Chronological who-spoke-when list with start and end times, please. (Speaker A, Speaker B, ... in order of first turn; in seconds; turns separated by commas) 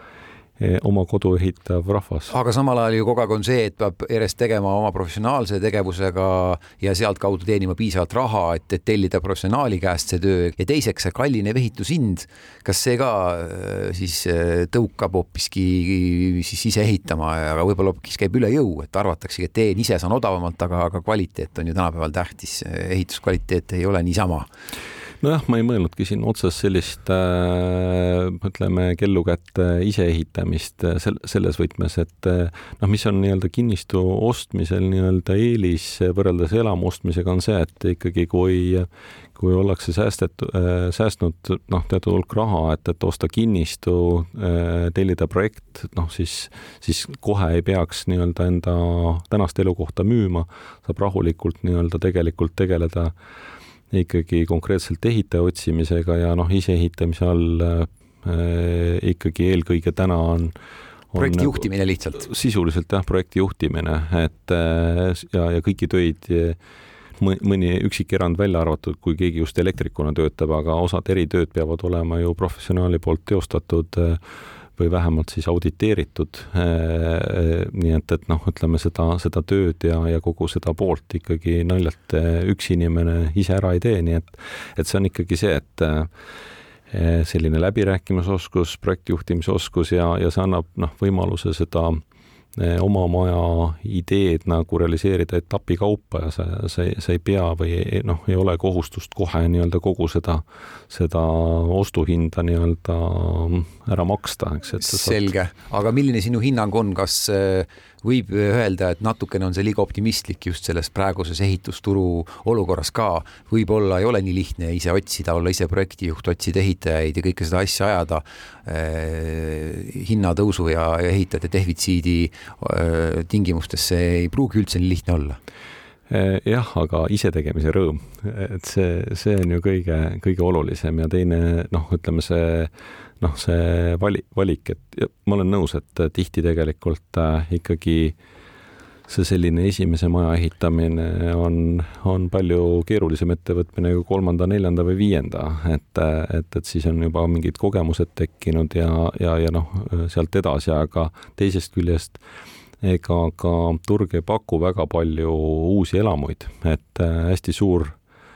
Speaker A: 0.6-2.3, Speaker B: 2.3-24.5, Speaker A: 25.2-53.1, Speaker A: 53.9-60.5, Speaker A: 61.1-66.6, Speaker B: 61.1-62.3, Speaker A: 67.2-74.2, Speaker A: 74.8-86.1, Speaker A: 86.9-92.0, Speaker A: 92.5-105.2, Speaker B: 104.8-125.4, Speaker A: 126.1-138.1, Speaker A: 139.1-152.2, Speaker A: 152.8-157.9